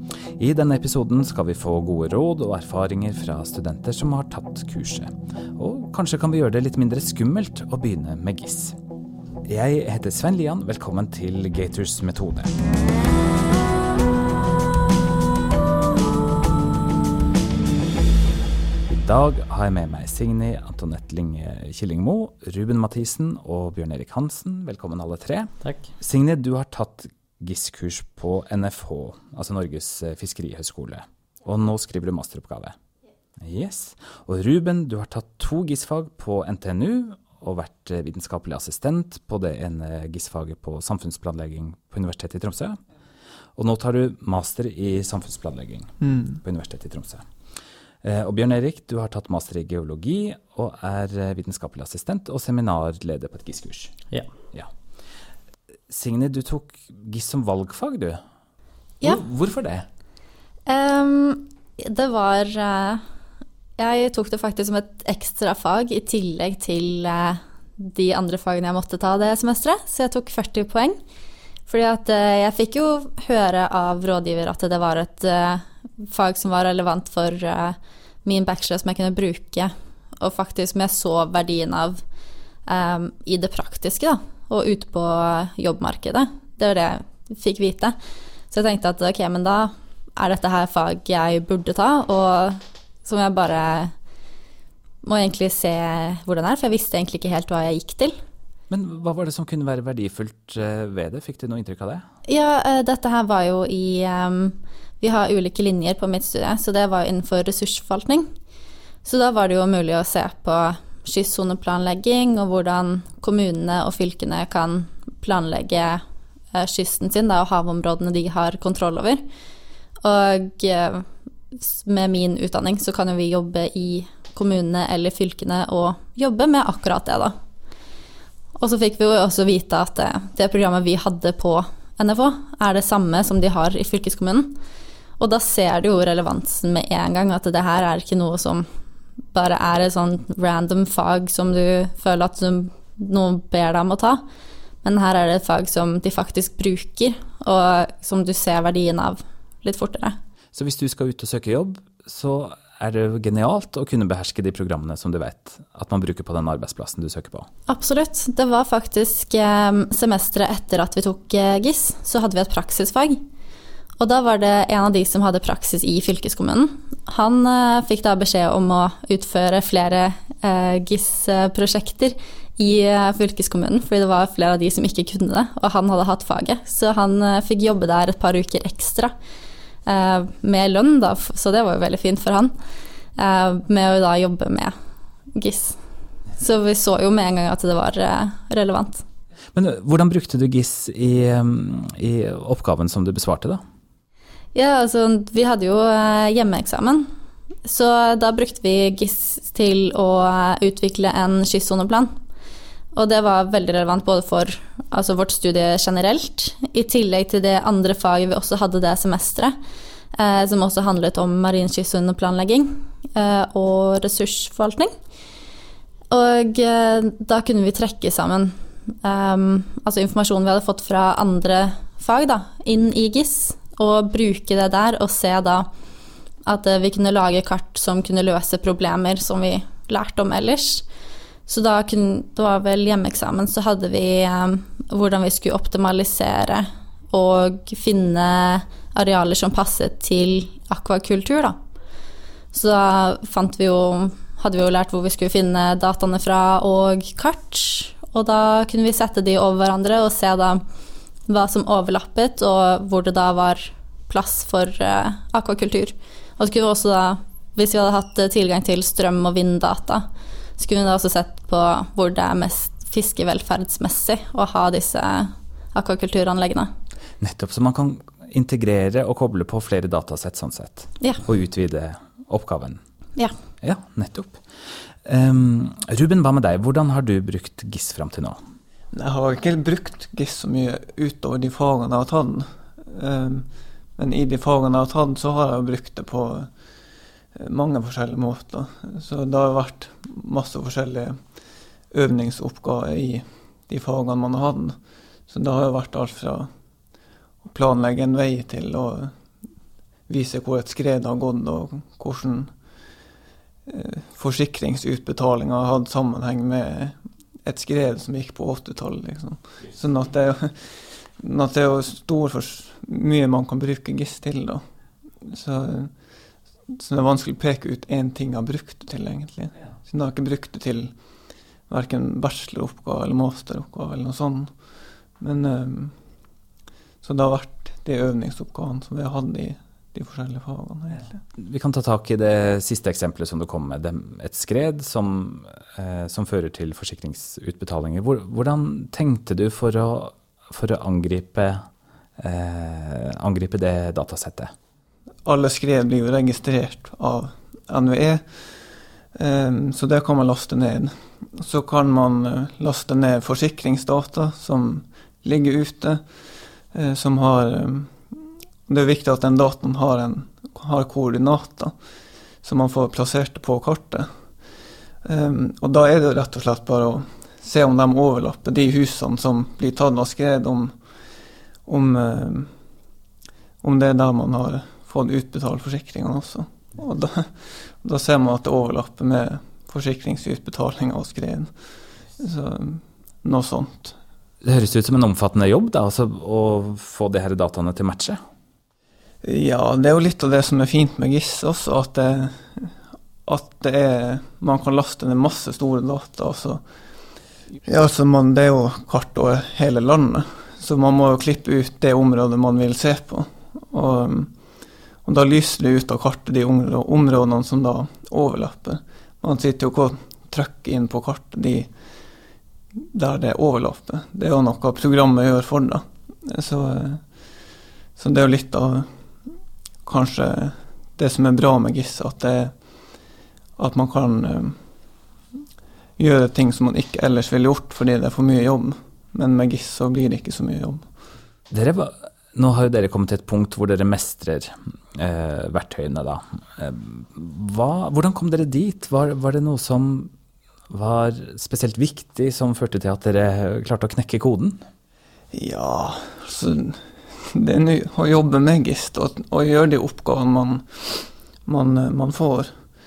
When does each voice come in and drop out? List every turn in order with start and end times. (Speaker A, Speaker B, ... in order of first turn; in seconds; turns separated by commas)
Speaker A: 0.4-8.7, Speaker A: 9.5-12.5, Speaker A: 18.9-32.8, Speaker A: 33.4-42.8, Speaker A: 43.5-47.2, Speaker B: 46.0-46.4, Speaker A: 48.0-54.0, Speaker A: 55.9-58.2, Speaker A: 59.0-59.9, Speaker C: 60.7-63.0, Speaker C: 63.8-71.0, Speaker C: 71.7-82.0, Speaker C: 82.7-88.0, Speaker C: 88.5-93.9, Speaker C: 95.0-98.2, Speaker A: 98.7-102.0, Speaker C: 102.3-108.3, Speaker C: 109.0-116.0, Speaker C: 116.5-119.2, Speaker C: 120.0-127.3, Speaker C: 128.6-134.5, Speaker C: 135.2-138.7, Speaker C: 139.3-144.2, Speaker C: 144.8-150.2, Speaker A: 150.5-157.5, Speaker C: 157.7-163.2, Speaker C: 164.0-179.1, Speaker C: 179.8-182.5, Speaker C: 183.2-184.7, Speaker C: 185.3-185.8, Speaker C: 186.4-189.0, Speaker A: 189.5-193.6, Speaker C: 194.5-197.1, Speaker C: 197.6-202.1, Speaker C: 202.9-209.6, Speaker C: 210.1-214.9, Speaker C: 216.1-225.7, Speaker C: 226.4-230.8, Speaker C: 231.5-241.6, Speaker C: 242.5-250.6, Speaker C: 251.3-260.0, Speaker C: 260.6-266.7, Speaker A: 267.2-272.8, Speaker A: 273.6-274.4, Speaker A: 275.0-278.4, Speaker B: 278.9-286.5, Speaker B: 287.3-291.2, Speaker B: 291.9-294.8, Speaker B: 295.3-296.5, Speaker B: 297.4-299.1, Speaker B: 300.1-302.5, Speaker B: 303.6-314.6, Speaker B: 315.2-315.9, Speaker B: 316.7-320.9, Speaker B: 321.7-324.6, Speaker B: 325.2-325.9, Speaker B: 327.0-331.2, Speaker A: 331.4-341.6, Speaker A: 342.2-344.5, Speaker B: 345.2-348.4, Speaker B: 349.1-356.0, Speaker B: 356.7-361.7, Speaker B: 362.4-364.1, Speaker B: 365.0-370.7, Speaker B: 371.6-372.5, Speaker B: 373.6-381.5, Speaker B: 382.2-383.9, Speaker A: 384.4-388.2, Speaker B: 389.2-392.7, Speaker B: 393.2-396.6, Speaker B: 397.6-404.3, Speaker B: 405.0-411.7, Speaker B: 412.8-417.1, Speaker B: 418.0-418.9, Speaker B: 419.8-422.5, Speaker B: 423.6-424.6, Speaker B: 426.0-430.8, Speaker A: 431.5-440.1, Speaker A: 440.7-444.6, Speaker B: 445.3-452.5